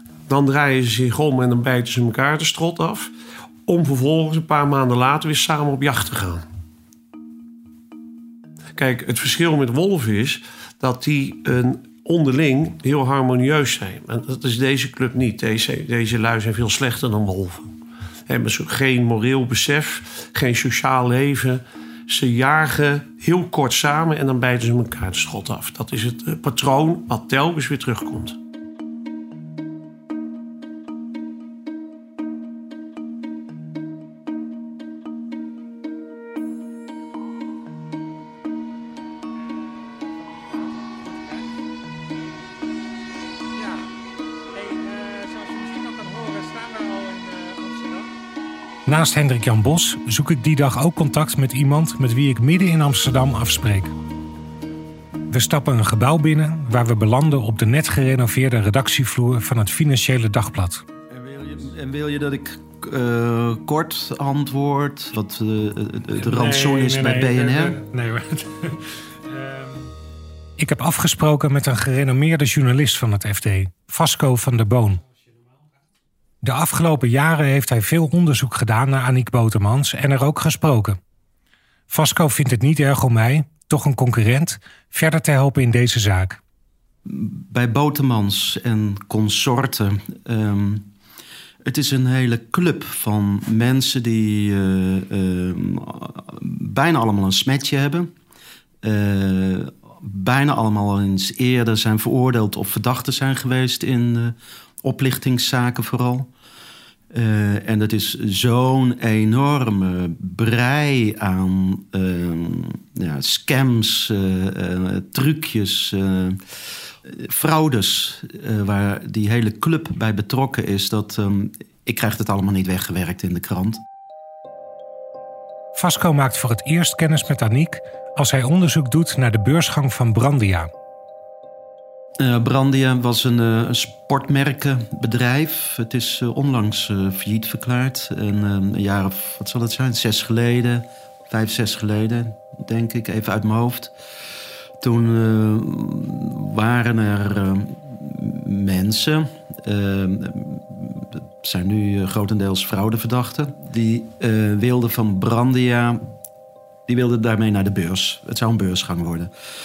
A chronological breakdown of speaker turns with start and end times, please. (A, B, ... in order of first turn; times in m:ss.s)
0:00.3-0:03.1 A
0:03.6-0:06.4 A
0:08.8-0:17.7 A
0:18.3-0:28.4 A
0:45.1-0:47.0 B
0:48.8-0:53.9 B
0:55.3-1:00.8 B
1:01.1-1:07.8 C
1:06.1-1:09.9 B
1:10.6-1:15.0 B
1:16.4-1:21.0 B
1:21.9-1:26.4 B
1:27.0-1:30.8 C
1:31.6-1:38.1 C
1:38.8-1:46.3 C
1:47.1-1:56.4 C
1:57.0-2:03.8 C
2:05.7-2:10.7 B
2:12.2-2:23.9 C
2:24.8-2:36.0 C
2:36.9-2:39.3 C